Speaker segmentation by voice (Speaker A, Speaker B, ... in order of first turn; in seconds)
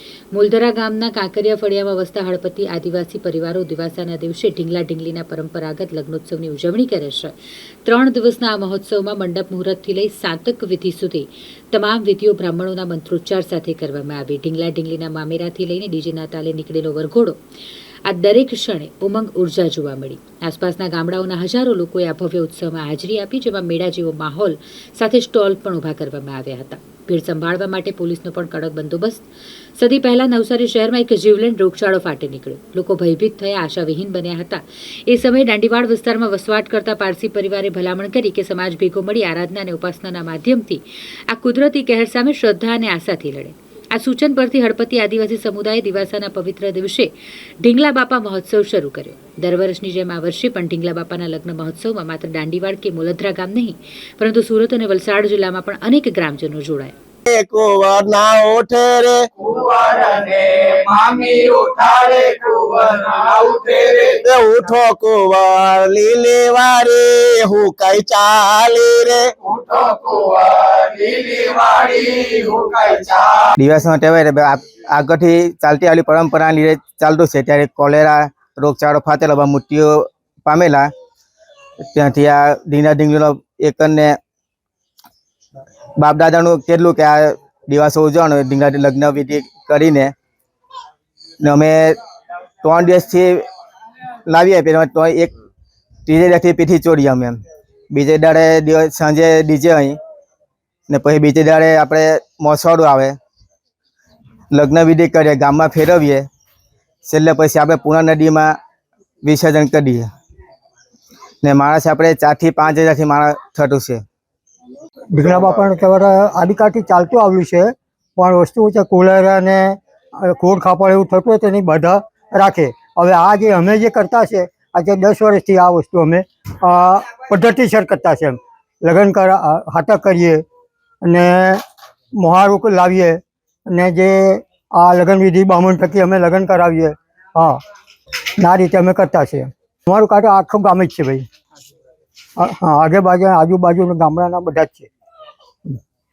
Speaker A: 0.3-7.3, 7.8-17.4, 18.1-29.2, 29.8-47.1, 47.6-56.9
Speaker B: 57.3-59.3, 64.2-69.3
Speaker C: 59.4-64.2, 69.4-73.5
Speaker D: 73.5-80.9, 81.9-84.2, 86.0-90.1, 91.4-92.0, 92.6-93.5, 94.3-95.3, 96.0-97.4, 97.9-100.0, 100.9-103.2, 104.5-106.3, 107.0-108.5, 109.2-110.1, 111.4-114.0
Speaker E: 115.1-130.4, 131.0-131.6, 132.2-137.6, 138.4-141.2, 142.4-144.9